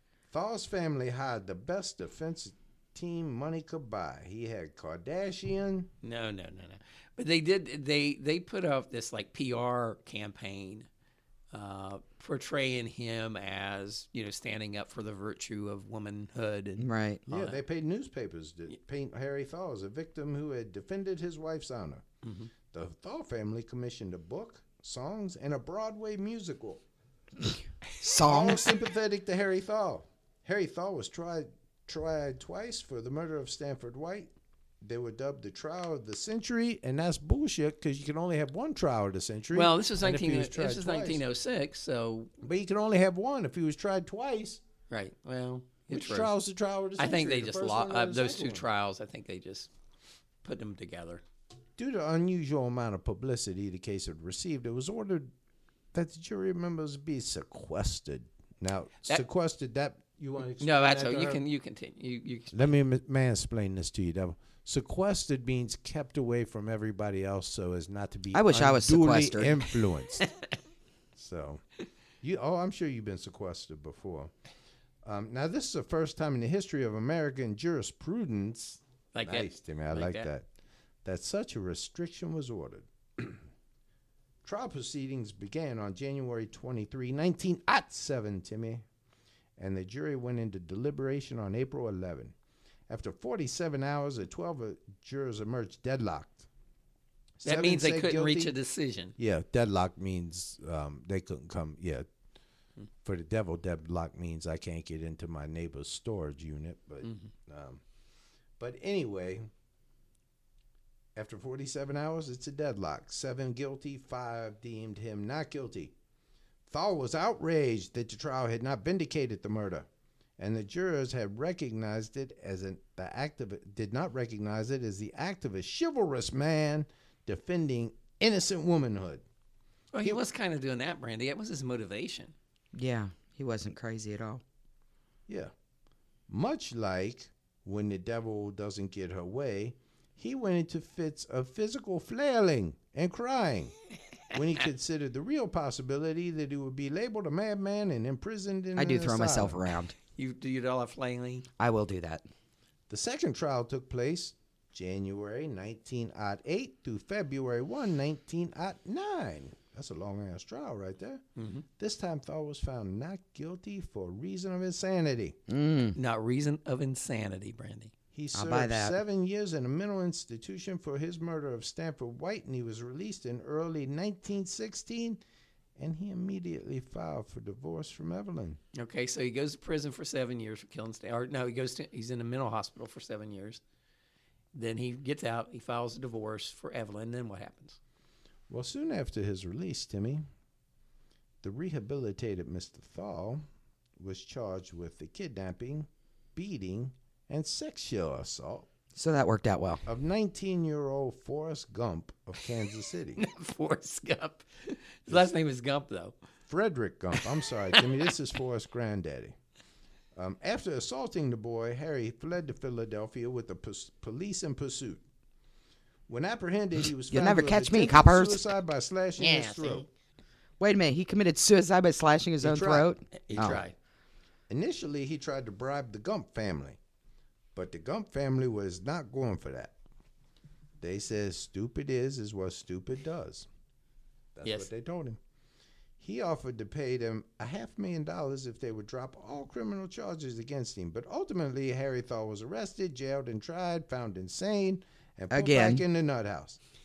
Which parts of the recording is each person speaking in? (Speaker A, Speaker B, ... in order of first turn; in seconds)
Speaker A: 0.3-5.9, 17.3-22.1, 22.7-26.8, 28.2-34.3, 34.8-41.2, 42.4-44.6, 45.9-48.6, 51.8-55.3, 55.9-61.4, 62.5-70.3, 71.2-71.6, 72.2-74.3, 75.0-80.4, 81.0-83.4, 84.4-88.8, 89.6-92.3, 92.9-96.5, 97.4-98.5, 99.2-102.0, 103.0-107.8, 108.6-109.5, 111.2-115.9, 116.7-119.9, 120.4-129.2, 136.3-143.7, 144.3-149.6, 152.9-161.2, 161.8-165.4, 168.1-175.2, 175.8-178.6, 188.5-190.2, 191.4-193.4, 194.0-198.7, 199.9-203.2, 206.5-209.3, 210.1-215.0, 216.1-219.9, 222.4-222.9, 224.5-226.8, 227.6-229.7, 230.8-233.5, 234.4-235.2, 236.0-246.6
Speaker B: 6.0-10.9, 11.5-17.6, 22.2-22.5, 39.5-42.3, 44.9-46.3, 47.0-49.7, 50.4-51.2, 60.6-62.7, 79.1-80.3, 97.4-99.1, 107.0-107.3, 129.9-132.3, 150.2-151.4, 161.4-161.6, 165.9-167.9, 178.7-183.6, 184.5-187.8, 203.2-206.1, 219.2-219.9, 223.1-223.7
Speaker C: 16.8-17.2, 28.0-28.7, 68.3-69.6, 132.7-134.4, 148.8-149.9, 151.6-152.3, 165.5-166.0, 168.3-169.0, 198.9-199.8, 217.1-218.4, 220.6-223.6, 245.3-245.8